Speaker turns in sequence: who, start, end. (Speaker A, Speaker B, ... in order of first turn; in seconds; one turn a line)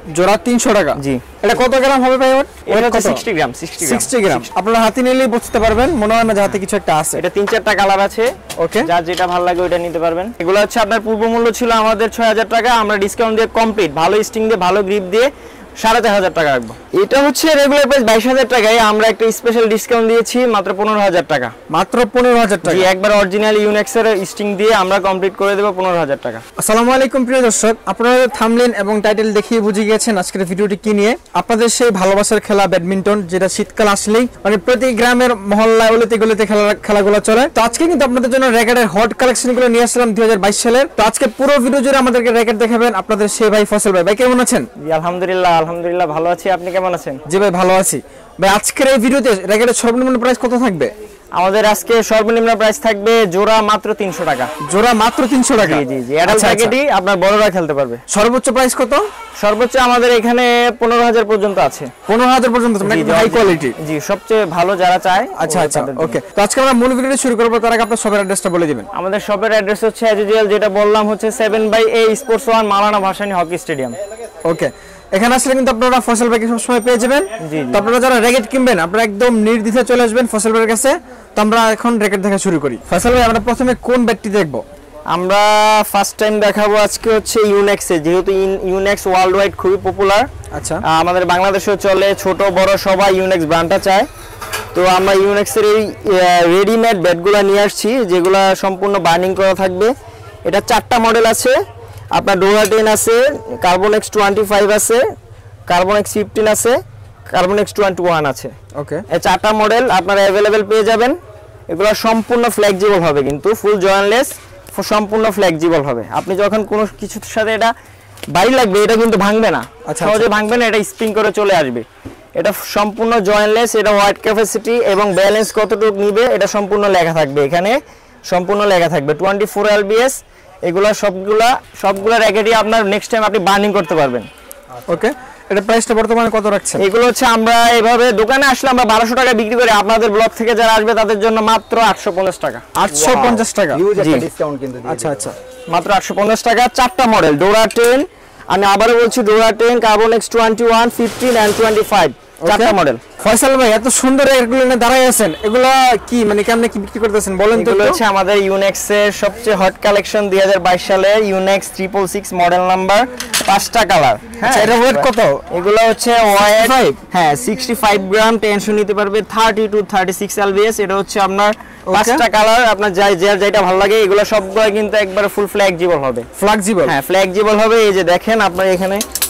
Speaker A: 0.1-3.2
Speaker B: 1.0-1.3
Speaker B: 2.7-4.5
Speaker A: 3.8-7.2
Speaker B: 7.2-21.5
Speaker A: 8.6-8.9
Speaker A: 21.7-22.9
Speaker B: 22.6-26.4
Speaker A: 26.6-44.7
Speaker B: 44.8-47.2
Speaker A: 47.3-50.9
Speaker B: 51.4-54.5
Speaker A: 54.6-56.8
Speaker B: 55.6-58.0
Speaker A: 58.1-59.0
Speaker B: 59.4-61.9
Speaker A: 62.1-63.8
Speaker B: 62.8-66.2
Speaker A: 65.4-68.9
Speaker B: 68.9-74.0
Speaker A: 74.5-84.6
Speaker B: 77.4-77.9
Speaker B: 85.1-90.3
Speaker A: 90.5-90.8
Speaker B: 90.8-94.1
Speaker B: 94.7-99.9
Speaker B: 100.5-101.6
Speaker B: 102.1-105.1
Speaker B: 105.7-106.8
Speaker B: 107.3-108.5
Speaker A: 108.8-109.0
Speaker B: 109.1-111.2
Speaker B: 111.7-117.7
Speaker B: 118.3-121.8
Speaker A: 119.9-120.3
Speaker B: 122.4-134.3
Speaker A: 134.9-136.8
Speaker B: 136.8-142.7
Speaker A: 142.8-143.9
Speaker C: 142.9-145.3
Speaker B: 144.0-144.3
Speaker A: 144.9-145.3
Speaker B: 145.7-153.0
Speaker A: 152.4-158.0
Speaker B: 157.6-176.3
Speaker A: 164.4-165.4
Speaker A: 166.6-167.0
Speaker A: 171.9-172.2
Speaker A: 176.4-177.0
Speaker B: 176.9-179.0